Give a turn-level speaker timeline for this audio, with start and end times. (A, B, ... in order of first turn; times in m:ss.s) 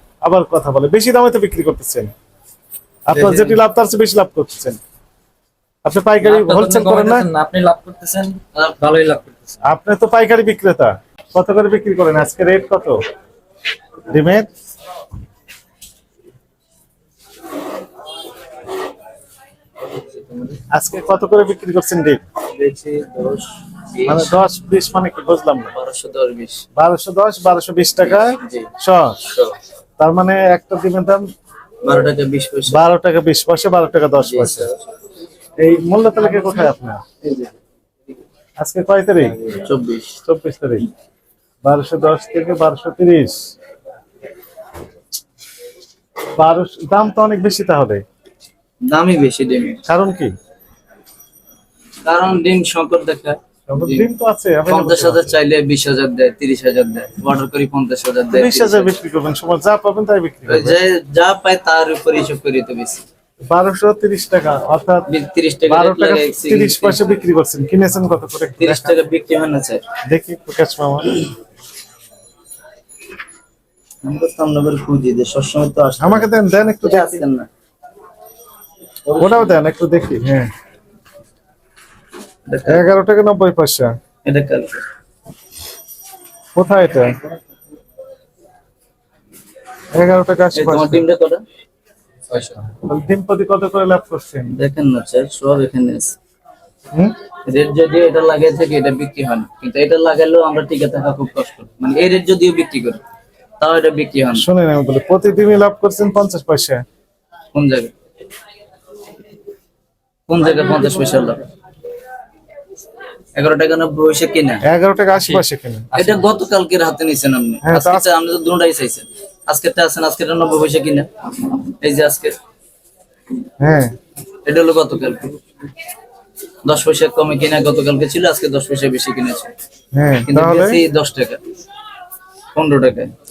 0:00.2-0:02.1 A
0:03.1-0:04.8 A
0:03.1-0:03.6 B
0:05.8-0:07.3 A
0:06.2-0:09.6 C
0:09.7-0:13.0 A
0:14.1-0:14.5 A
0:20.2-0:20.6 B
0:20.7-0:22.2 A
0:22.5-0:24.3 B
0:24.1-0:25.7 A
0:25.7-0:26.6 B
0:26.8-0:29.2 A
0:28.0-0:28.7 B
0:29.2-0:29.6 B
0:30.0-0:31.2 A
0:31.8-0:32.8 B
0:32.7-0:34.7 A
0:34.2-0:34.9 B
0:35.6-0:37.0 A
0:37.2-0:37.5 B
0:38.6-0:39.4 A
0:39.5-0:40.2 B
0:40.3-0:40.9 A
0:41.6-0:43.4 A
0:46.4-0:48.0 A
0:48.9-0:49.8 B
0:49.9-0:50.3 A
0:52.0-0:54.1 B
0:53.7-0:55.4 A
0:54.7-0:59.0 B
0:58.3-1:00.8 A
1:00.5-1:03.0 B
1:03.5-1:05.1 A
1:05.1-1:07.2 B
1:05.7-1:08.9 A
1:08.6-1:09.8 B
1:10.1-1:11.2 A
1:14.0-1:17.5 B
1:16.0-1:17.2 A
1:19.1-1:19.6 B
1:19.2-1:20.5 A
1:22.5-1:22.9 B
1:22.7-1:23.9 A
1:24.2-1:24.9 B
1:26.6-1:27.2 A
1:29.9-1:31.0 A
1:30.5-1:31.4 B
1:32.3-1:32.6 B
1:32.8-1:34.5 A
1:34.5-1:36.2 B
1:37.5-1:43.0 B
1:43.6-1:44.5 B
1:44.4-1:46.8 A
1:47.5-1:47.9 B
1:50.3-1:51.4 B
1:53.3-1:54.6 B
1:54.6-1:56.2 A
1:55.2-2:02.4 B
1:57.6-1:58.0 A
2:03.6-2:03.9 A
2:04.5-2:05.4 B
2:06.6-2:09.5 B
2:09.9-2:10.8 A
2:10.2-2:11.4 B
2:12.5-2:13.1 B